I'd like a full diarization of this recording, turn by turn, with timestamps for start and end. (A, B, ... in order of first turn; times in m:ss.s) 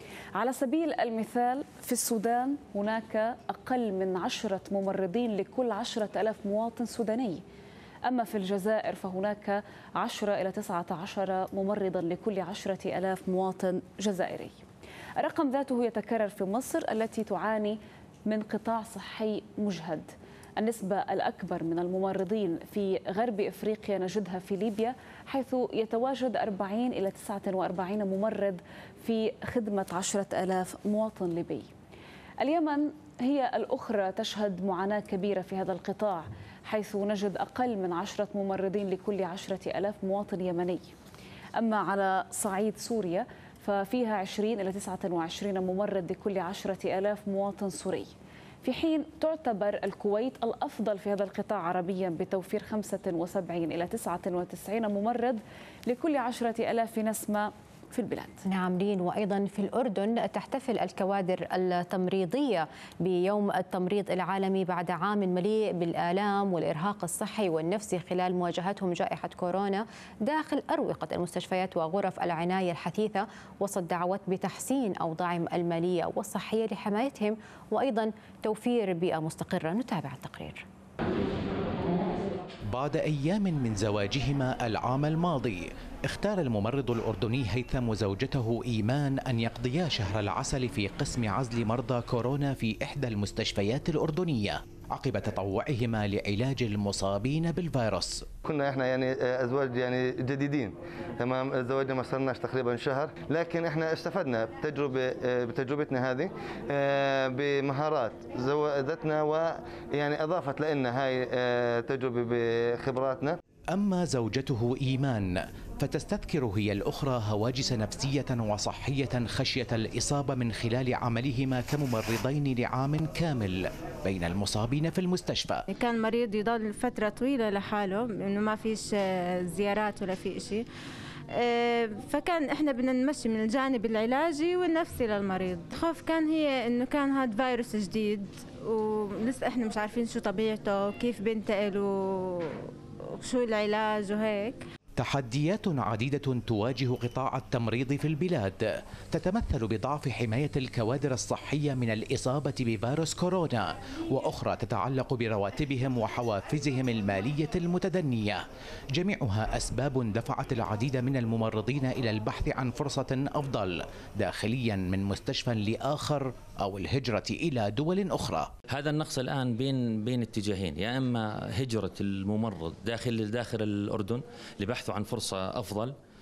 0:00.4-0:07.4 A
0:08.1-0:14.6 A
0:15.2-0:17.8 A
0:18.3-0:31.7 A
0:32.4-0:40.9 A
0:41.6-0:48.1 A
0:48.6-0:58.4 A
0:58.4-1:20.6 B
1:22.7-1:38.3 C
1:38.4-1:53.4 D
1:53.7-2:05.7 C
2:05.7-2:10.6 E
2:11.3-2:22.6 E
2:23.1-2:24.6 E
2:25.0-2:38.4 C
2:39.0-2:48.5 C
2:48.7-2:55.9 F